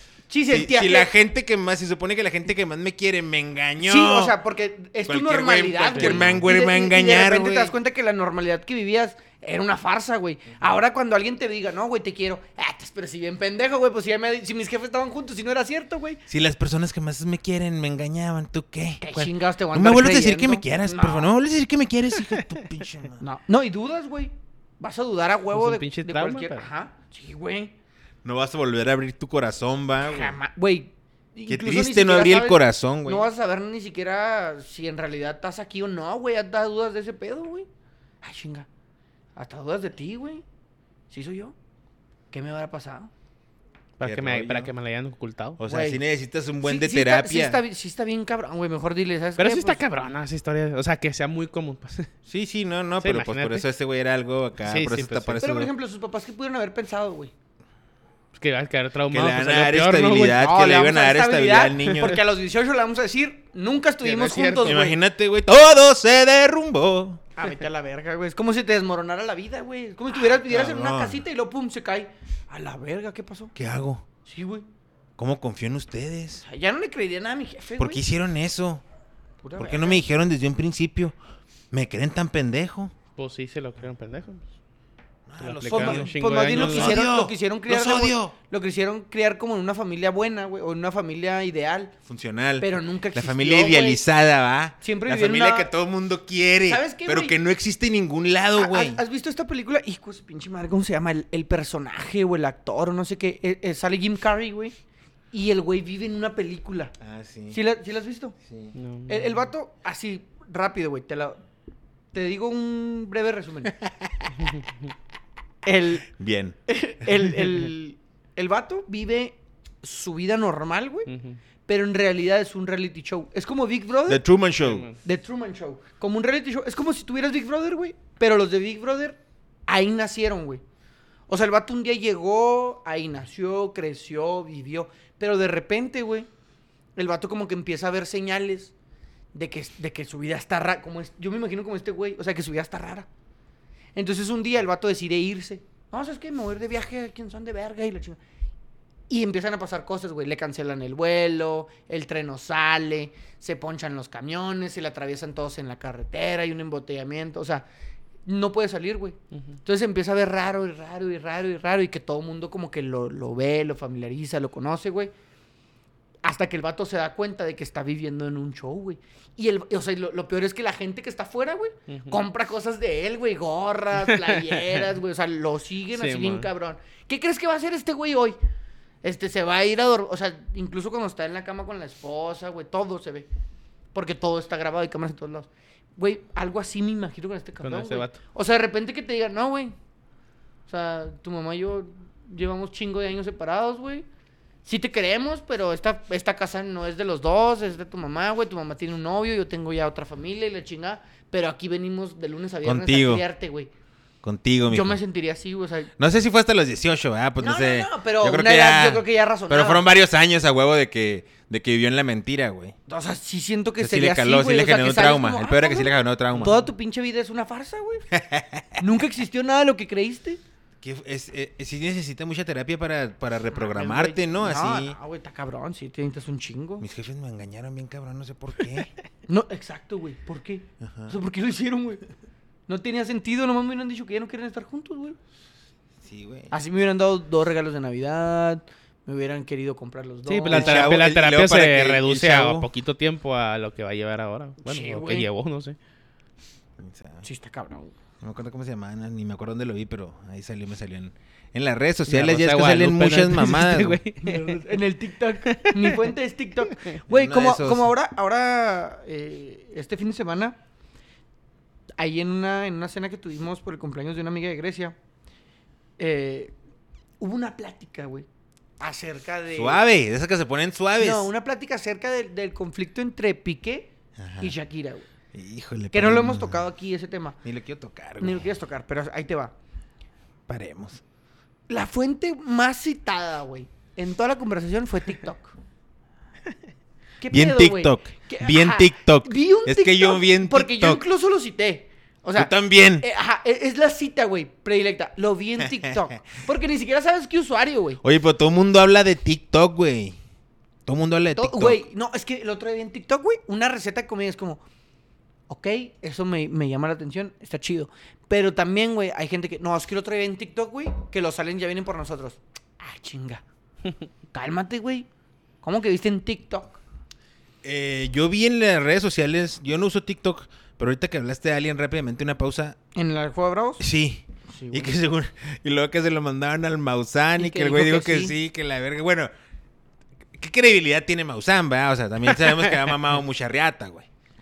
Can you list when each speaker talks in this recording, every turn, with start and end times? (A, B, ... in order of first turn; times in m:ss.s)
0:00.3-0:01.1 A
0:00.5-0:04.4 B
0:03.8-0:16.2 A
0:05.0-0:07.8 B
0:05.9-0:06.4 C
0:16.3-0:23.2 B
0:19.0-0:21.3 A
0:23.2-0:27.7 A
0:25.5-0:26.7 C
0:28.2-0:30.4 B
0:30.0-0:37.7 A
0:31.5-0:33.3 B
0:38.2-0:38.7 A
0:39.4-0:40.4 A
0:41.1-0:41.5 A
0:42.3-0:43.1 A
0:44.0-0:45.6 C
0:44.0-0:44.7 B
0:45.6-0:47.6 B
0:45.6-0:46.0 A
0:46.6-0:49.8 A
0:49.4-0:52.1 C
0:52.3-0:55.7 B
0:53.0-0:53.6 C
0:54.6-0:55.4 C
0:55.4-0:57.3 A
0:58.4-1:00.4 C
0:59.1-1:02.2 B
1:00.3-1:05.0 A
1:04.0-1:04.9 C
1:04.6-1:07.2 B
1:07.4-1:13.5 A
1:10.2-1:11.2 B
1:13.6-1:14.0 B
1:14.2-1:14.6 A
1:15.2-1:16.4 B
1:16.4-1:18.0 A
1:17.8-1:18.8 B
1:19.4-1:20.0 A
1:19.6-1:21.2 B
1:21.7-1:22.9 B
1:23.2-1:24.4 C
1:25.3-1:28.3 B
1:25.4-1:27.0 C
1:25.7-1:31.9 A
1:32.0-1:39.0 B
1:32.6-1:34.0 A
1:34.8-1:35.7 A
1:36.7-1:37.4 A
1:38.6-1:44.8 A
1:45.3-1:46.9 A
1:47.0-1:47.6 B
1:47.5-1:48.4 A
1:48.4-1:48.8 B
1:48.8-1:49.4 C
1:49.1-1:51.4 A
1:52.1-1:53.7 A
1:53.8-1:54.3 B
1:55.6-1:56.1 A
1:56.1-1:56.6 B
1:56.7-2:01.1 A
2:01.1-2:01.4 C
2:01.6-2:04.2 A
2:04.1-2:04.9 B
2:04.6-2:05.0 C
2:05.0-2:10.6 A
2:11.3-2:16.3 A
2:17.0-2:18.7 A
2:19.3-2:23.1 A
2:24.0-2:28.2 A
2:29.1-2:37.6 A
2:38.2-2:45.1 A
2:46.2-2:58.4 A
2:51.9-2:52.2 C
2:54.1-2:54.7 C
2:55.9-2:56.5 C
2:59.0-3:03.3 A
3:03.9-3:09.7 A
3:07.6-3:08.2 C
3:10.7-3:14.0 A
3:14.6-3:23.7 A
3:22.6-3:23.2 B
3:24.2-3:25.0 B
3:24.7-3:25.9 A
3:26.0-3:32.8 B
3:27.4-3:29.8 A
3:32.9-3:38.0 A
3:33.8-3:36.6 B
3:38.1-3:38.8 B
3:38.8-3:40.4 A
3:40.8-3:45.0 B
3:43.5-3:46.9 A
3:46.8-3:48.9 B
3:49.3-3:52.0 A
3:50.8-3:51.1 B
3:52.7-3:55.2 A
3:56.0-3:56.5 B
3:56.5-4:00.9 A
4:00.2-4:05.8 C
4:00.5-4:02.7 B
4:04.6-4:05.3 A
4:06.8-4:07.2 B
4:07.2-4:07.9 A
4:08.2-4:14.0 B
4:12.1-4:14.6 C
4:14.2-4:20.6 A
4:15.4-4:16.1 C
4:17.1-4:17.9 B
4:22.0-4:24.9 A
4:26.0-4:26.5 A
4:27.2-4:28.2 A
4:28.8-4:29.8 A
4:29.5-4:31.3 B
4:31.0-4:35.1 A
4:34.2-4:34.5 B
4:35.3-4:36.7 B
4:35.9-4:37.4 A
4:37.4-4:38.5 B
4:38.2-4:39.5 A
4:40.5-4:41.0 B
4:41.7-4:45.6 A
4:47.2-4:58.0 A
4:47.3-4:51.0 B
4:52.4-4:53.1 B
4:55.6-4:56.0 B
4:58.0-5:00.2 B
5:00.9-5:01.8 B
5:01.4-5:04.6 A
5:05.5-5:13.4 A
5:14.3-5:15.1 A
5:15.6-5:16.8 A
5:17.6-5:22.8 B
5:22.9-5:23.8 A
5:23.8-5:29.3 B
5:24.5-5:25.0 A
5:27.4-5:28.4 A
5:30.3-5:34.1 B